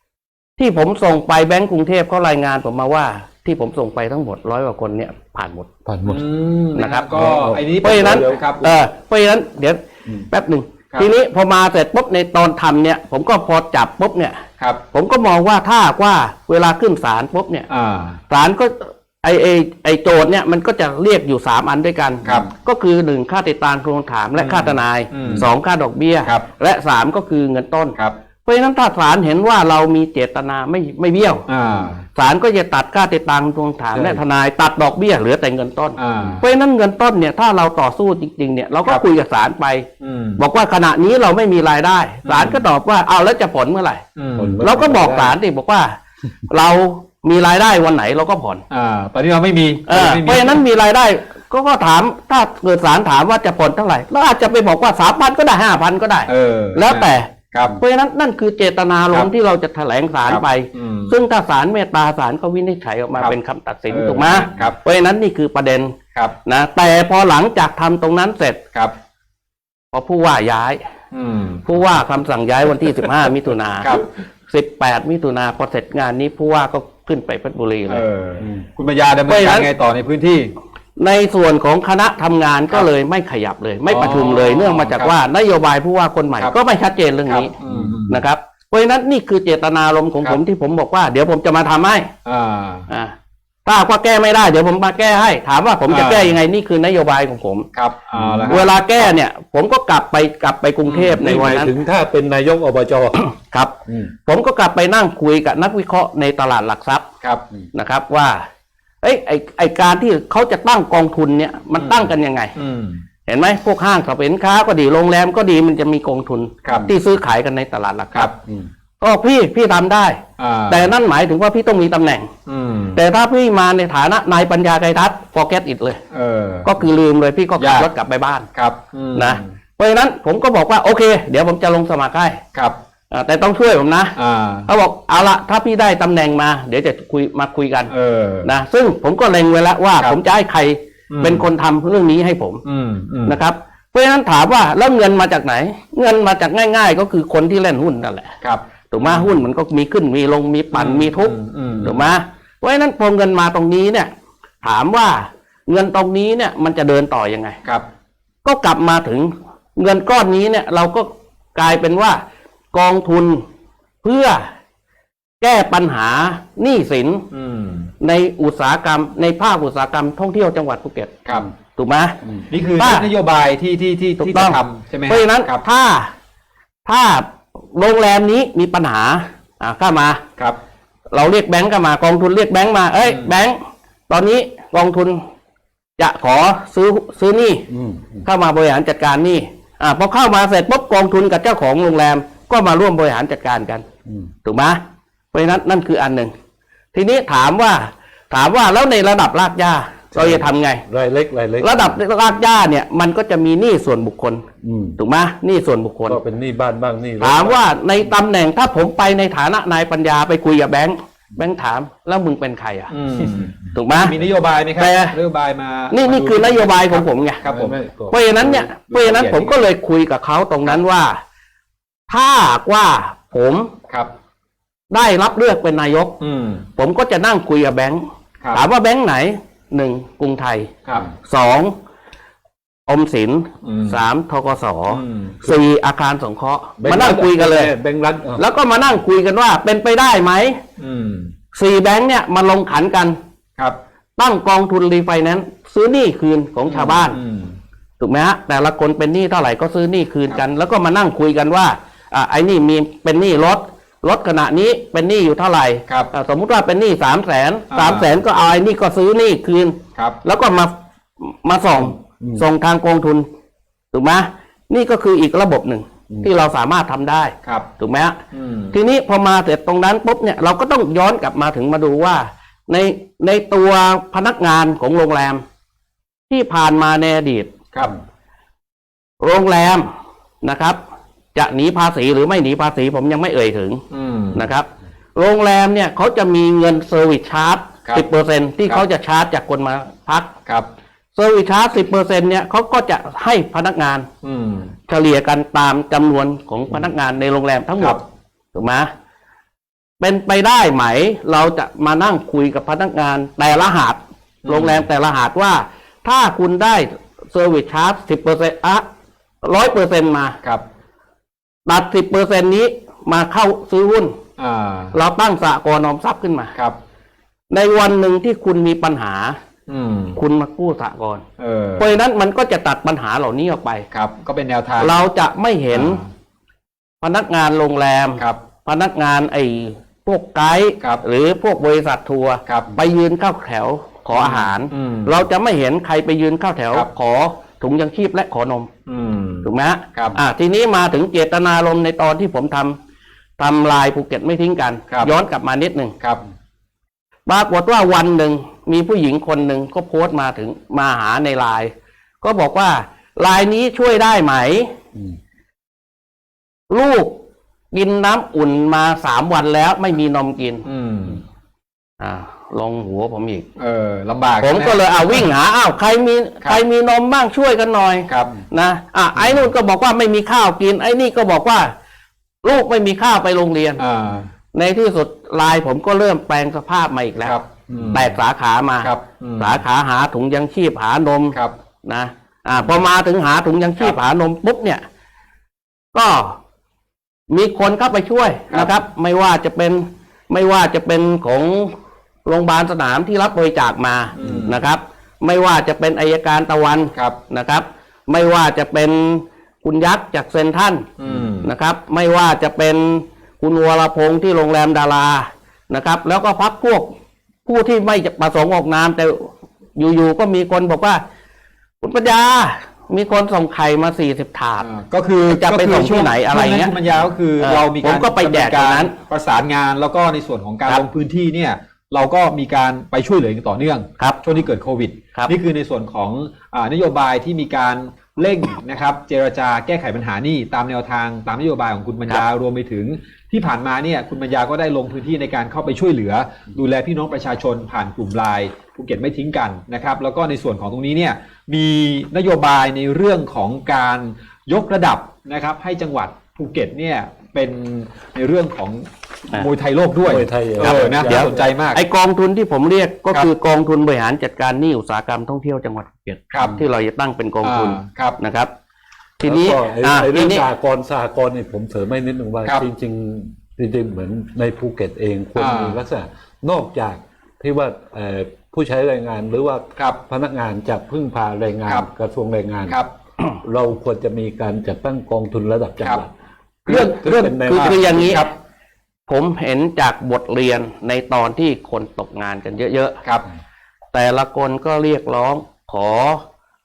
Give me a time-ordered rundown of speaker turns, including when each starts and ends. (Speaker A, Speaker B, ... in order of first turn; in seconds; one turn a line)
Speaker A: 0.6-5.7
Speaker B: 5.8-6.2
Speaker C: 6.0-8.8
Speaker A: 6.8-17.7
Speaker B: 7.1-8.4
Speaker C: 17.7-18.2
Speaker A: 18.3-31.4
Speaker C: 24.4-25.5
Speaker C: 31.5-32.0
Speaker A: 32.1-44.0
Speaker B: 33.9-34.2
Speaker C: 36.0-36.4
Speaker C: 40.0-40.4
Speaker C: 42.2-42.6
Speaker C: 44.1-44.6
Speaker B: 44.4-45.3
Speaker A: 44.6-48.6
Speaker C: 48.7-50.6
Speaker A: 49.9-68.6
Speaker C: 56.3-57.8
Speaker C: 60.3-61.1
Speaker C: 63.9-64.8
Speaker A: 69.9-70.8
Speaker C: 71.1-71.6
Speaker A: 71.7-78.0
Speaker C: 77.9-80.5
Speaker B: 78.4-78.7
Speaker A: 79.3-79.7
Speaker A: 81.0-87.5
Speaker C: 83.9-85.2
Speaker C: 87.3-88.2
Speaker B: 87.7-88.0
Speaker A: 88.1-92.1
Speaker C: 92.2-92.9
Speaker A: 92.9-93.1
Speaker A: 93.7-97.7
Speaker C: 95.9-96.4
Speaker C: 97.7-98.8
Speaker B: 98.1-98.6
Speaker A: 98.5-101.7
Speaker C: 100.8-101.2
Speaker B: 101.1-103.2
Speaker A: 103.2-107.1
Speaker B: 103.9-104.1
Speaker A: 107.7-108.4
Speaker A: 109.0-112.5
Speaker C: 111.8-113.0
Speaker A: 113.2-118.3
Speaker A: 119.0-122.3
Speaker C: 120.4-120.9
Speaker C: 122.5-123.0
Speaker A: 122.9-126.0
Speaker C: 126.1-126.7
Speaker A: 126.7-128.5
Speaker C: 127.6-127.9
Speaker C: 128.6-129.5
Speaker A: 129.2-132.4
Speaker A: 133.1-137.9
Speaker C: 134.2-134.7
Speaker C: 137.9-138.5
Speaker A: 138.4-142.6
Speaker C: 141.1-141.5
Speaker C: 142.7-143.4
Speaker A: 143.2-148.3
Speaker C: 148.4-149.4
Speaker A: 148.9-154.1
Speaker C: 150.7-152.1
Speaker A: 154.6-157.6
Speaker A: 158.4-163.4
Speaker A: 164.0-164.5
Speaker A: 165.4-167.3
Speaker C: 167.3-167.9
Speaker A: 168.0-171.2
Speaker A: 171.8-172.2
Speaker C: 172.5-175.6
Speaker A: 172.8-173.1
Speaker A: 174.2-176.1
Speaker A: 176.8-180.2
Speaker A: 181.1-183.6
Speaker C: 183.0-183.3
Speaker A: 184.1-185.2
Speaker A: 186.0-187.7
Speaker B: 187.7-188.3
Speaker A: 188.2-193.8
Speaker B: 194.1-194.3
Speaker A: 194.4-194.8
Speaker A: 195.3-196.3
Speaker A: 196.9-200.8
Speaker B: 200.1-202.0
Speaker A: 201.6-204.4
Speaker B: 204.6-205.0
Speaker A: 205.0-206.2
Speaker B: 206.1-207.7
Speaker A: 207.2-212.9
Speaker C: 212.9-217.8
Speaker A: 213.7-214.1
Speaker A: 214.8-215.2
Speaker A: 215.9-217.4
Speaker B: 217.4-218.7
Speaker A: 218.1-221.2
Speaker C: 218.4-219.7
Speaker A: 222.1-223.7
Speaker A: 224.9-226.2
Speaker C: 226.2-226.6
Speaker A: 226.8-230.7
Speaker A: 231.2-231.7
Speaker A: 232.9-237.7
Speaker C: 233.6-234.0
Speaker C: 234.9-235.4
Speaker B: 236.8-238.4
Speaker A: 238.4-240.6
Speaker C: 240.8-241.3
Speaker A: 241.5-243.2
Speaker A: 244.2-247.2
Speaker C: 246.7-247.6
Speaker A: 248.0-263.2
Speaker C: 257.7-258.1
Speaker A: 263.9-268.2
Speaker C: 268.3-268.8
Speaker A: 268.7-275.4
Speaker A: 276.3-277.5
Speaker A: 279.2-279.9
Speaker A: 280.4-280.8
Speaker A: 281.3-290.3
Speaker C: 283.9-284.5
Speaker A: 291.1-294.1
Speaker C: 294.2-294.7
Speaker A: 294.9-298.0
Speaker A: 298.5-298.9
Speaker A: 300.0-308.8
Speaker C: 304.4-304.8
Speaker A: 309.4-310.4
Speaker A: 311.7-314.2
Speaker C: 314.4-314.9
Speaker A: 314.9-316.5
Speaker A: 317.5-319.4
Speaker C: 319.7-320.2
Speaker A: 320.1-321.2
Speaker C: 321.4-321.9
Speaker A: 321.8-323.9
Speaker C: 323.9-325.0
Speaker A: 324.8-326.0
Speaker C: 325.7-326.0
Speaker A: 327.0-338.7
Speaker C: 334.1-335.2
Speaker C: 338.9-340.2
Speaker A: 339.4-342.8
Speaker A: 343.4-345.9
Speaker A: 347.3-354.7
Speaker A: 356.7-357.2
Speaker A: 357.7-360.7
Speaker C: 360.6-361.2
Speaker A: 362.0-363.4
Speaker C: 363.6-365.3
Speaker A: 364.4-371.7
Speaker A: 372.4-373.8
Speaker C: 373.8-374.3
Speaker A: 374.5-384.8
Speaker C: 377.2-378.1
Speaker C: 378.8-379.6
Speaker A: 385.9-386.4
Speaker A: 387.3-391.7
Speaker C: 388.5-388.8
Speaker A: 392.2-400.9
Speaker C: 394.1-394.6
Speaker C: 401.0-401.5
Speaker A: 401.4-406.9
Speaker A: 407.4-411.0
Speaker A: 411.8-414.7
Speaker C: 414.6-451.8
Speaker A: 415.3-416.8
Speaker A: 417.4-418.9
Speaker B: 450.0-451.4
Speaker A: 450.6-458.5
Speaker C: 456.3-456.6
Speaker C: 457.4-458.2
Speaker A: 459.2-460.4
Speaker B: 459.2-472.8
Speaker C: 465.4-465.8
Speaker B: 473.4-476.1
Speaker B: 476.7-478.1
Speaker C: 476.7-476.9
Speaker A: 476.7-478.3
Speaker C: 477.5-478.3
Speaker A: 479.1-483.0
Speaker A: 483.9-486.2